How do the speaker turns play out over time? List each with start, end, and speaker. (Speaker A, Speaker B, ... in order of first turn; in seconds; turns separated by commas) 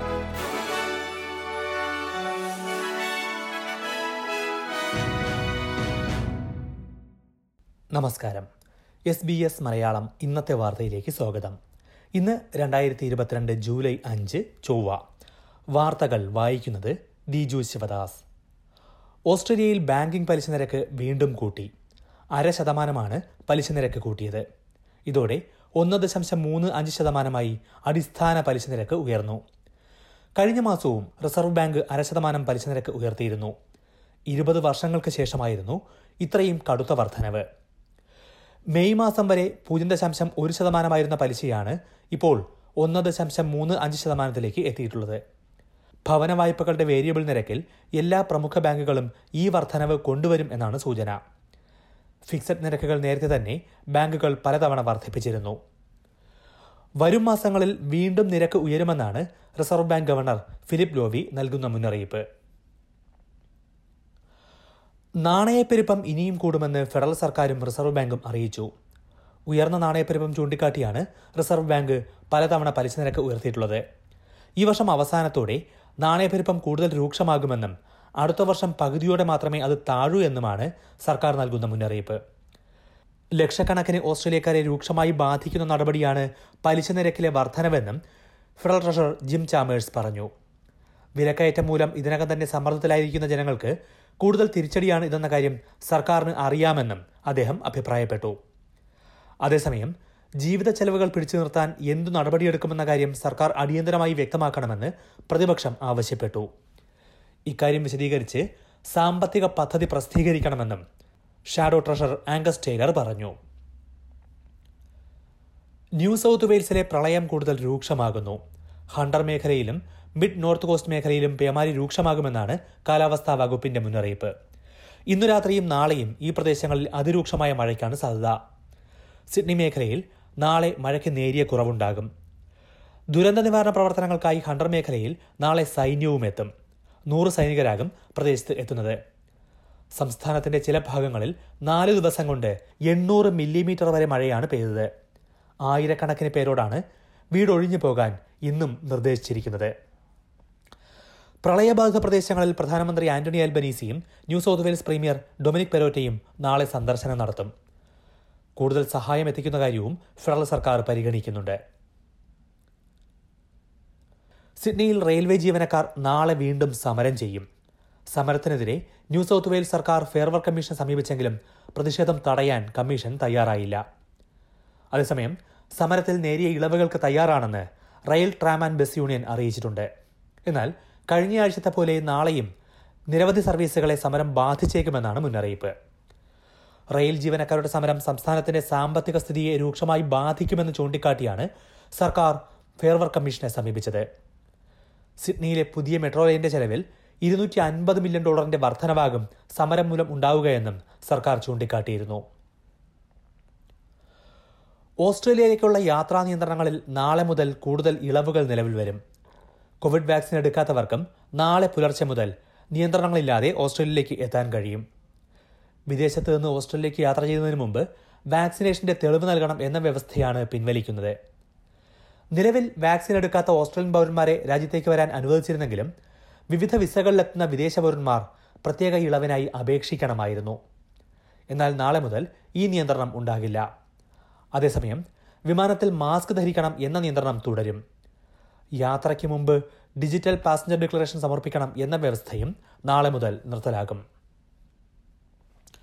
Speaker A: 7.9-8.4, Speaker A: 9.1-11.5, Speaker A: 12.2-15.0, Speaker A: 15.7-18.2, Speaker A: 19.3-21.7, Speaker A: 22.3-24.4, Speaker A: 25.1-29.4, Speaker A: 30.4-33.5, Speaker A: 34.3-37.4, Speaker A: 38.7-45.2, Speaker A: 46.0-51.2, Speaker A: 52.3-55.6, Speaker A: 57.0-62.2, Speaker A: 65.2-68.7, Speaker A: 69.5-73.8, Speaker A: 74.6-82.2, Speaker A: 83.4-88.0, Speaker A: 88.6-90.3, Speaker A: 91.2-98.3, Speaker A: 99.4-106.5, Speaker A: 107.5-110.8, Speaker A: 111.5-113.3, Speaker A: 116.0-118.4, Speaker A: 118.9-124.3, Speaker A: 125.1-128.3, Speaker A: 129.3-132.1, Speaker A: 133.1-136.5, Speaker A: 137.1-138.9, Speaker A: 139.9-144.9, Speaker A: 145.6-146.8, Speaker A: 147.3-149.7, Speaker A: 151.4-157.5, Speaker A: 158.6-161.6, Speaker A: 164.6-167.4, Speaker A: 168.1-173.8, Speaker A: 174.9-179.9, Speaker A: 180.5-182.5, Speaker A: 183.1-185.7, Speaker A: 186.9-194.0, Speaker A: 195.2-202.2, Speaker A: 205.0-209.0, Speaker A: 209.8-214.8, Speaker A: 215.9-221.2, Speaker A: 222.3-225.9, Speaker A: 226.5-230.6, Speaker A: 231.5-233.6, Speaker A: 234.5-237.8, Speaker A: 238.8-244.0